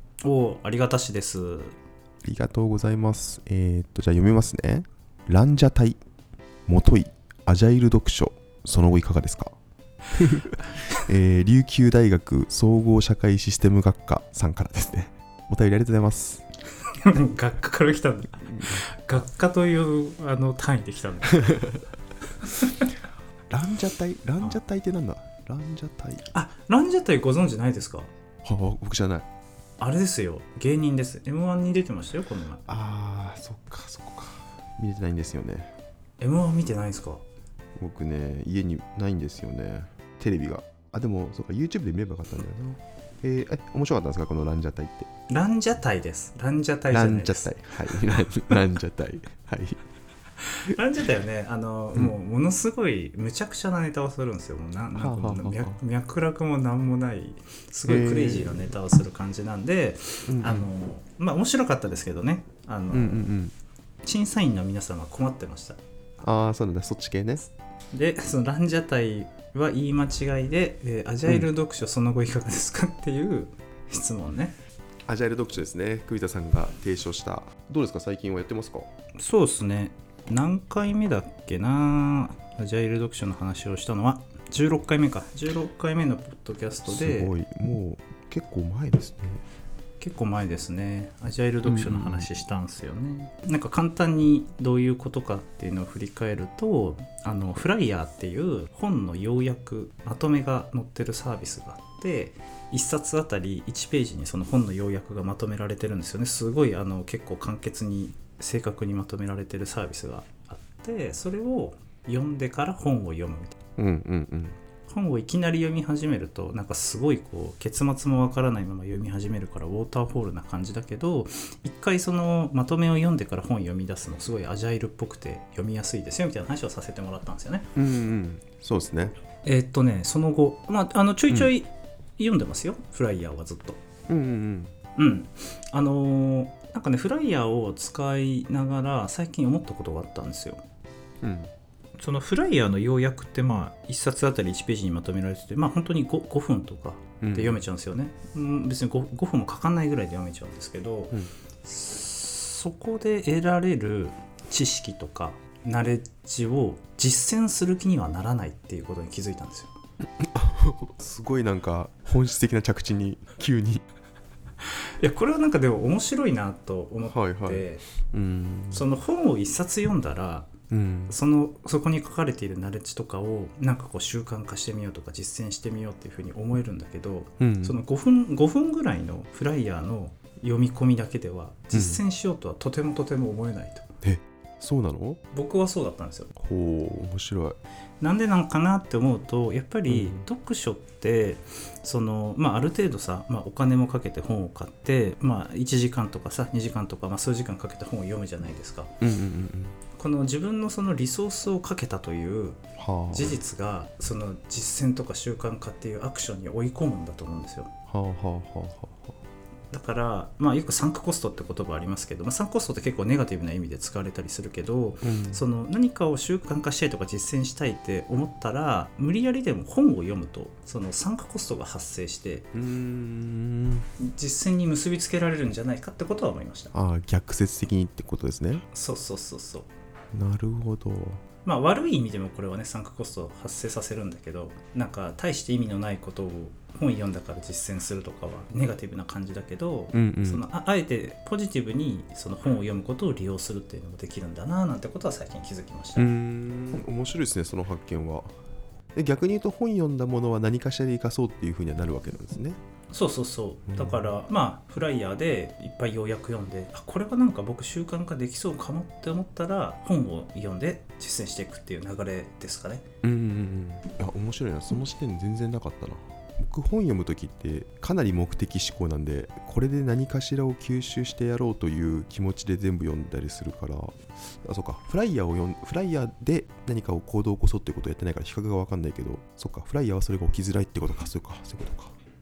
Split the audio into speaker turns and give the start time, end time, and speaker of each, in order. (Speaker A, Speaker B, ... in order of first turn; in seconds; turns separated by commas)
Speaker A: 0.2-1.8, Speaker B: 2.2-6.0, Speaker B: 6.7-9.5, Speaker B: 10.1-16.4, Speaker A: 16.9-21.6, Speaker B: 18.4-18.9, Speaker B: 21.4-21.8, Speaker A: 22.4-22.9, Speaker B: 23.5-26.3, Speaker A: 26.3-28.1, Speaker B: 28.4-29.2, Speaker A: 29.8-32.8, Speaker B: 32.7-35.7, Speaker A: 36.2-37.2, Speaker B: 37.8-45.1, Speaker A: 45.3-48.2, Speaker B: 46.9-49.8, Speaker A: 50.7-63.3, Speaker B: 54.9-55.8, Speaker B: 57.8-58.7, Speaker B: 60.3-60.7, Speaker B: 62.9-63.5, Speaker A: 64.0-65.8, Speaker B: 66.2-67.4, Speaker A: 67.9-74.5, Speaker B: 75.1-78.9, Speaker A: 79.2-87.3, Speaker B: 86.8-89.4, Speaker A: 90.0-113.5, Speaker B: 91.6-92.3, Speaker B: 113.8-114.6, Speaker A: 114.9-127.7, Speaker B: 127.7-129.1, Speaker A: 129.4-133.8, Speaker B: 134.1-134.7, Speaker A: 134.9-140.6, Speaker B: 141.2-141.5, Speaker A: 142.0-159.8, Speaker B: 147.2-147.6, Speaker B: 160.2-163.8, Speaker A: 165.0-167.8, Speaker B: 167.0-168.8, Speaker A: 168.7-170.5, Speaker B: 170.7-171.2, Speaker A: 171.1-183.8, Speaker B: 177.4-177.8, Speaker B: 181.7-182.0, Speaker B: 184.0-185.2, Speaker A: 185.3-186.3, Speaker B: 186.3-187.6, Speaker A: 188.0-198.9, Speaker B: 189.9-190.2, Speaker B: 199.0-199.8, Speaker A: 199.9-207.7, Speaker B: 202.8-203.4, Speaker B: 207.9-209.2, Speaker A: 209.7-222.5, Speaker B: 215.0-215.4, Speaker B: 222.5-223.9, Speaker A: 224.0-226.7, Speaker B: 226.7-228.6, Speaker A: 228.7-229.7, Speaker B: 230.1-231.2, Speaker A: 231.4-246.1, Speaker B: 239.9-240.4, Speaker B: 245.9-248.3, Speaker B: 248.9-252.6, Speaker A: 252.9-262.8, Speaker B: 253.7-254.1, Speaker B: 263.0-281.9